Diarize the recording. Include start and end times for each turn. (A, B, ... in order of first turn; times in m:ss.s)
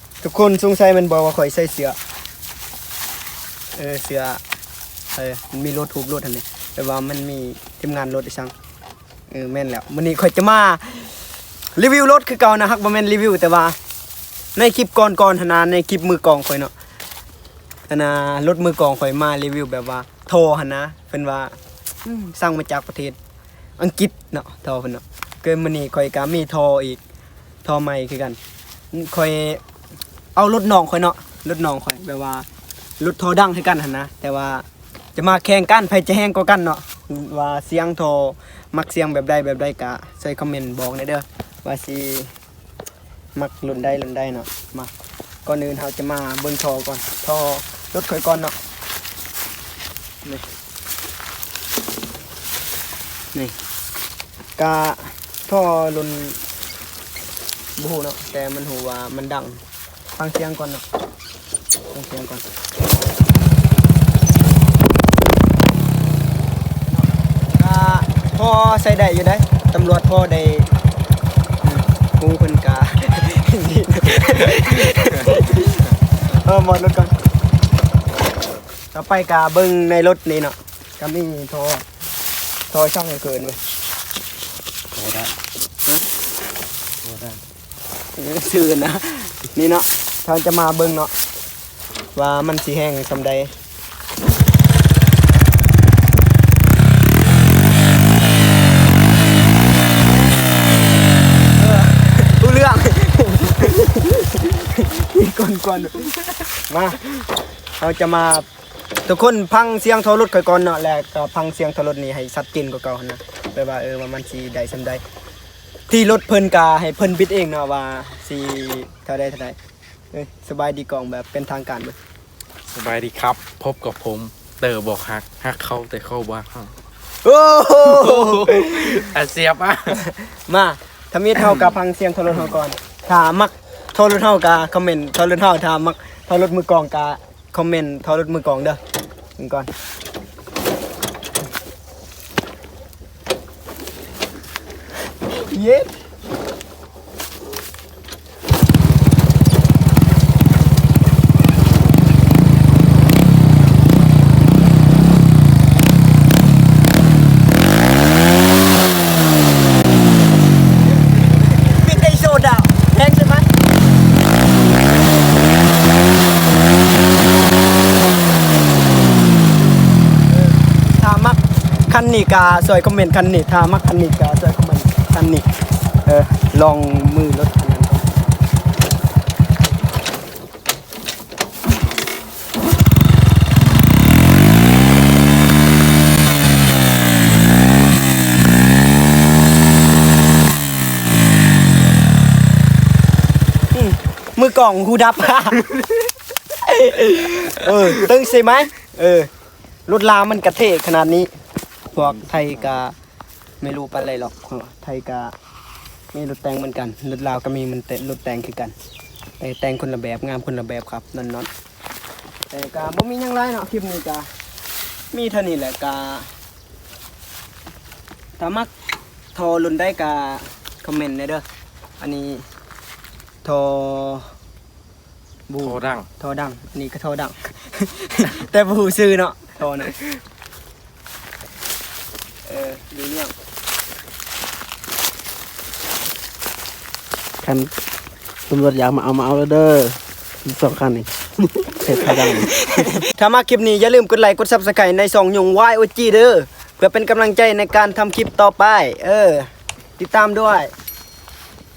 0:00.2-0:02.0 A
0:03.7-0:04.4 A
0:05.1-0:08.5 A
0:09.3-0:11.2 A
0:11.7-0:13.8 A
0:14.5-0:16.7 A
0:17.9-0:23.2 A
0:23.8-0:27.0 A
0:27.6-0:28.4 A
0:28.9-0:29.6 A
0:30.3-0:32.4 A
0:33.0-0:42.3 A
0:43.3-0:44.9 A
0:45.4-0:48.5 A
0:54.6-0:56.4 A
0:57.8-0:59.6 A
1:00.2-1:00.8 A
1:01.9-1:02.4 A
1:06.9-1:10.7 A
1:11.6-1:17.1 A
1:18.9-1:21.8 A
1:22.7-1:23.6 A
1:24.9-1:25.3 B
1:27.0-1:27.4 B
1:28.2-1:31.1 A
1:32.1-1:33.5 A
1:41.6-1:47.1 A
1:47.8-1:48.5 A
1:49.0-1:55.0 A
1:55.9-1:59.6 A
2:00.1-2:02.0 A
2:02.7-2:06.7 B
2:07.2-2:09.1 A
2:07.8-2:10.0 B
2:09.9-2:18.8 A
2:19.4-2:19.7 A
2:25.2-2:25.9 A
2:41.1-2:43.5 A
2:50.3-2:58.1 A
3:13.7-3:15.9 A
3:16.6-3:19.3 A
3:19.9-3:21.3 A
3:21.9-3:22.9 A
3:23.6-3:25.3 A
3:26.1-3:28.7 A
3:29.4-3:31.5 A
3:32.5-3:34.3 A
3:35.1-3:36.3 A
3:38.4-3:38.7 A
3:39.3-3:41.4 A
3:42.0-3:42.5 A
3:43.4-3:44.3 A
3:45.5-3:50.0 A
3:45.6-3:46.1 B
3:52.4-3:53.3 A
3:57.4-3:57.7 C
3:58.4-4:03.0 C
4:02.0-4:10.7 A